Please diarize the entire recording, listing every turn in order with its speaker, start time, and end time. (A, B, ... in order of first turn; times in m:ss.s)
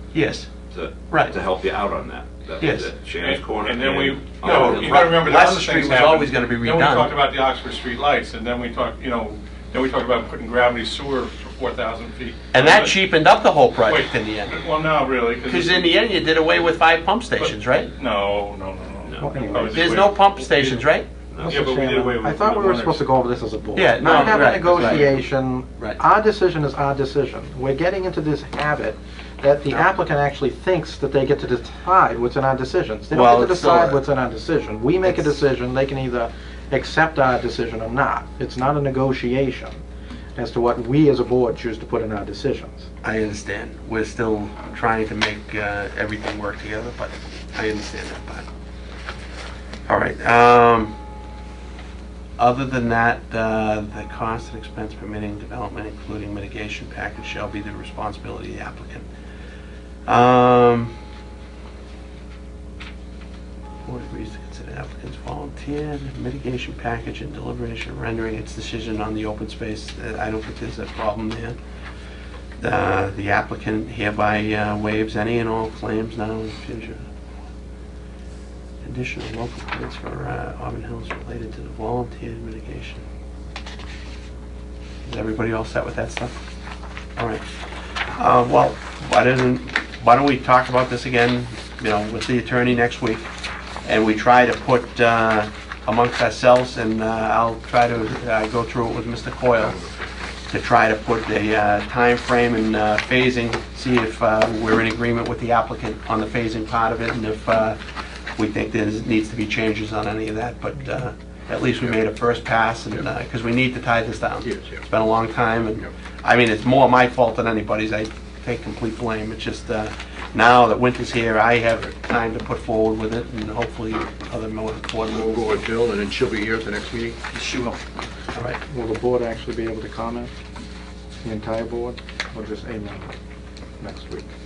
0:00.1-0:00.5 A
0:00.7-0:05.2 B
0:01.1-0:01.4 A
0:02.6-0:02.9 A
0:03.2-0:13.1 C
0:04.4-0:07.1 A
0:12.5-0:14.6 A
0:13.8-0:15.9 C
0:15.4-0:17.9 A
0:17.4-0:20.8 C
0:19.2-0:20.1 D
0:19.7-0:21.1 A
0:21.3-0:21.7 B
0:21.4-0:39.8 D
0:21.4-0:23.1 C
0:23.7-0:25.2 A
0:24.0-0:25.2 C
0:33.1-0:34.0 A
0:40.4-0:42.9 D
0:43.0-0:48.4 A
0:49.9-0:51.0 A
0:52.4-0:59.1 A
1:00.1-1:00.9 A
1:03.8-1:11.6 A
1:12.6-1:17.0 A
1:18.8-1:23.0 A
1:25.0-1:26.4 A
1:27.2-1:27.4 A
1:28.1-1:33.3 A
1:33.8-1:39.8 A
1:40.5-1:47.8 A
1:48.4-2:05.7 A
1:54.4-1:54.8 E
2:05.1-2:07.8 E
2:08.7-2:10.3 D
2:11.2-2:13.1 D
2:13.8-2:14.2 D